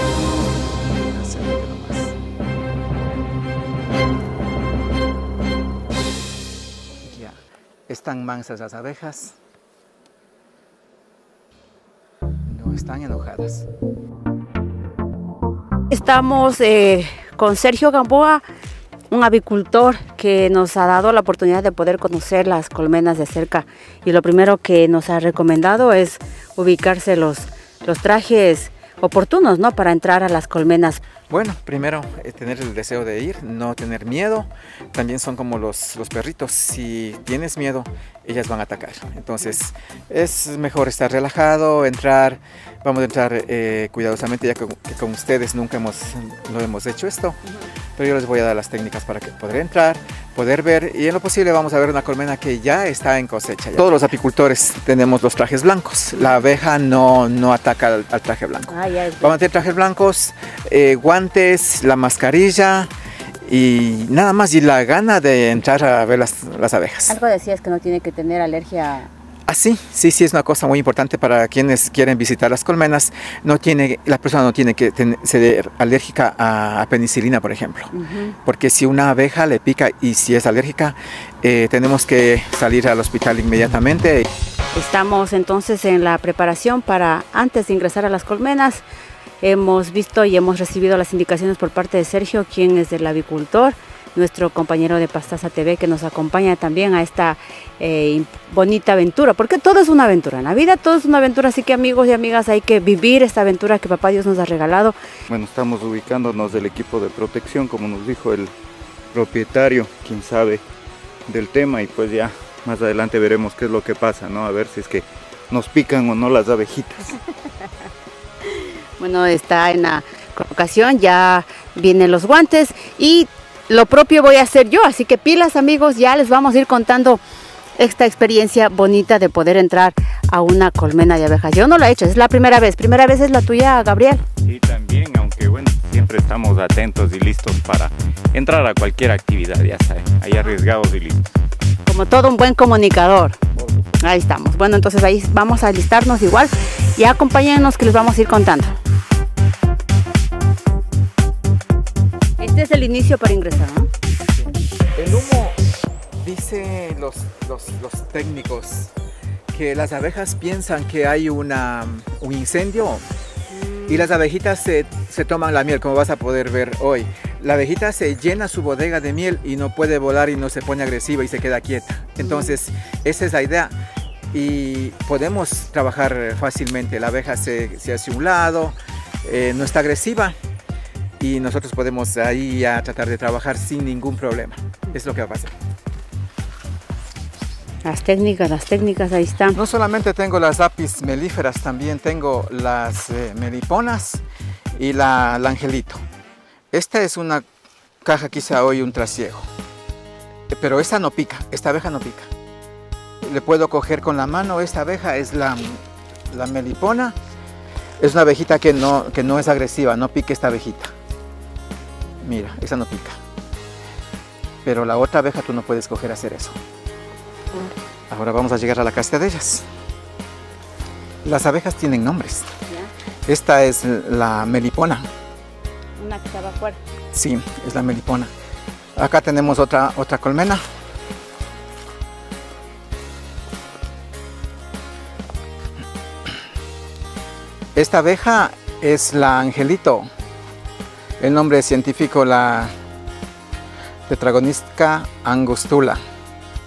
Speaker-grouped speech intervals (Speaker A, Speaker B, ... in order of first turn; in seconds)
Speaker A: 0.7-2.2, 7.0-9.4, 12.5-13.7, 31.3-47.4, 48.0-62.9, 63.4-67.2, 69.5-77.9, 78.5-84.3, 154.3-155.6, 156.2-158.9, 159.5-163.1, 163.9-173.8, 174.3-180.3, 181.2-185.5, 189.5-196.0, 196.7-197.5, 198.0-199.5, 200.5-202.3, 203.2-207.2, 208.0-210.9, 212.2-213.2, 214.6-216.6, 218.1-219.7, 221.2-222.5, 223.3-225.1, 227.1-228.3, 229.0-230.6, 237.8-240.1, 241.2-242.7, 244.1-246.0
Speaker B: 15.9-18.4, 19.1-31.0, 58.7-59.5, 67.1-69.1, 77.9-78.4, 84.7-88.8, 89.4-105.0, 118.4-127.2, 127.8-134.2, 141.9-143.4, 144.0-148.8, 152.4-153.9, 163.5-164.1, 172.2-172.6, 187.8-189.6, 226.0-226.8
Speaker C: 105.3-108.5, 109.1-110.6, 111.3-117.2, 134.4-141.2